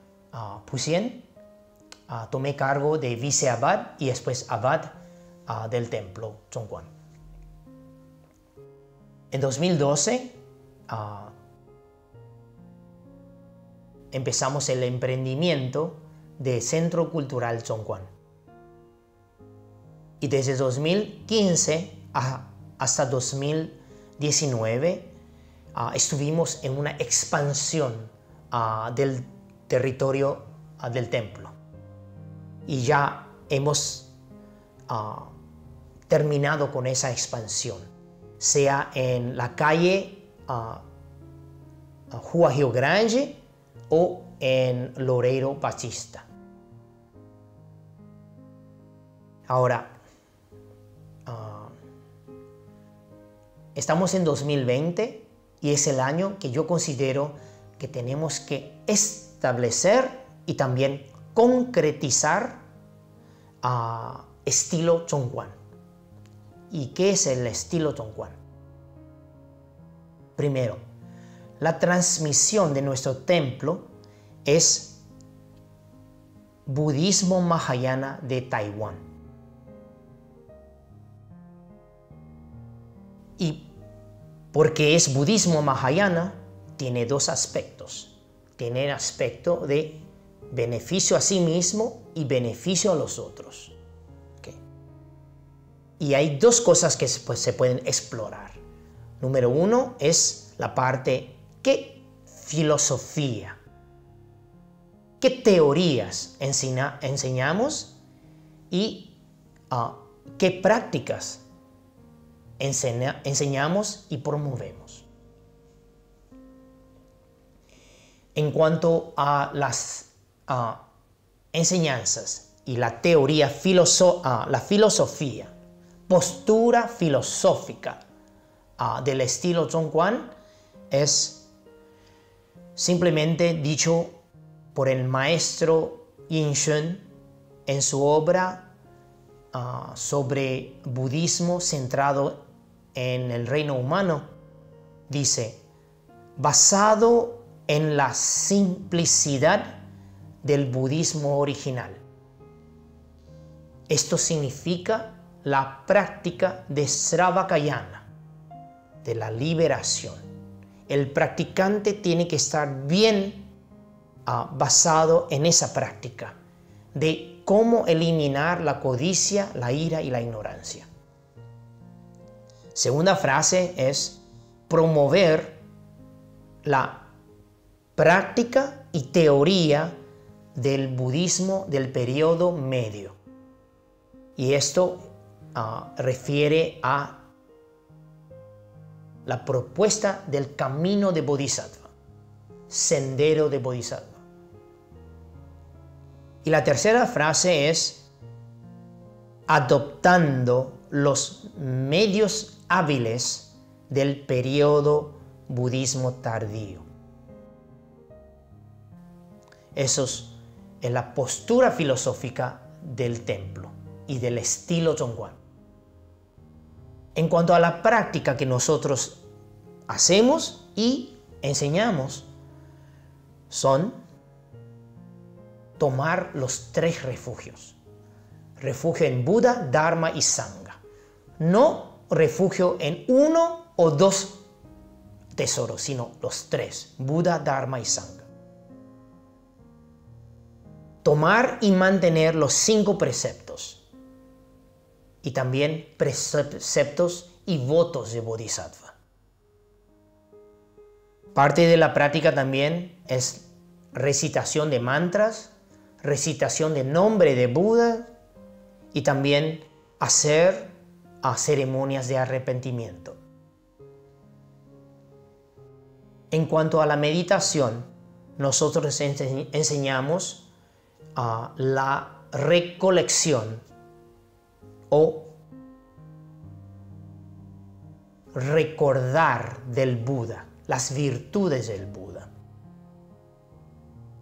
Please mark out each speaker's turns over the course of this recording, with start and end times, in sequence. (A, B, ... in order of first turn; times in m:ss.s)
0:00.3-0:01.3 A
0:02.1-0:05.0 A
0:05.5-0:06.9 A
0:09.3-0:10.3 A
0:10.9-0:11.3 A
0:14.1-0:18.1 A
0:20.2-0:25.1 A
0:25.7-0:31.6 A
0:32.7-0:34.1 A
0:34.9-0:35.3 A
0:36.1-0:37.9 A
0:38.4-0:40.8 A
0:42.1-0:46.3 A
0:49.5-0:50.0 A
0:51.3-0:51.7 A
0:53.8-1:02.6 A
1:03.6-1:05.6 A
1:06.7-1:08.4 A
1:10.4-1:10.8 A
1:11.6-1:13.9 A
1:14.4-1:15.0 A
1:16.7-1:19.0 A
1:23.4-1:23.7 A
1:24.5-1:33.8 A
1:36.0-1:38.6 A
1:39.2-1:43.6 A
1:45.2-1:48.0 A
1:48.7-1:49.2 A
1:49.7-1:51.4 A
1:52.6-1:55.1 A
1:58.4-2:00.8 A
2:01.5-2:05.5 A
2:06.1-2:08.0 A
2:08.8-2:10.3 A
2:10.9-2:11.4 A
2:12.8-2:14.2 A
2:14.7-2:17.1 A
2:17.7-2:18.7 A
2:19.5-2:22.4 A
2:23.0-2:24.3 A
2:25.1-2:25.6 A
2:26.4-2:29.8 A
2:30.4-2:32.0 A
2:33.9-2:38.1 A
2:39.0-2:40.2 A
2:40.9-2:43.5 A
2:44.3-2:46.4 A
2:46.9-2:50.9 A
2:52.7-2:55.6 A
2:56.6-2:57.1 A
2:58.0-3:00.0 A
3:00.6-3:03.2 A
3:04.4-3:07.2 A
3:09.3-3:11.9 A
3:12.7-3:14.2 A
3:16.4-3:18.1 A
3:19.5-3:26.9 A
3:29.7-3:35.4 A
3:37.2-3:39.2 A
3:39.9-3:42.3 A
3:43.5-3:44.0 A
3:45.8-3:47.8 A
3:48.6-3:50.8 A
3:51.4-3:54.4 A
3:55.4-3:58.3 A
4:01.0-4:03.8 A
4:05.2-4:09.0 A
4:11.4-4:18.1 A
4:18.9-4:23.2 A
4:26.3-4:30.5 A
4:31.2-4:33.6 A
4:34.9-4:35.3 A
4:38.3-4:42.3 A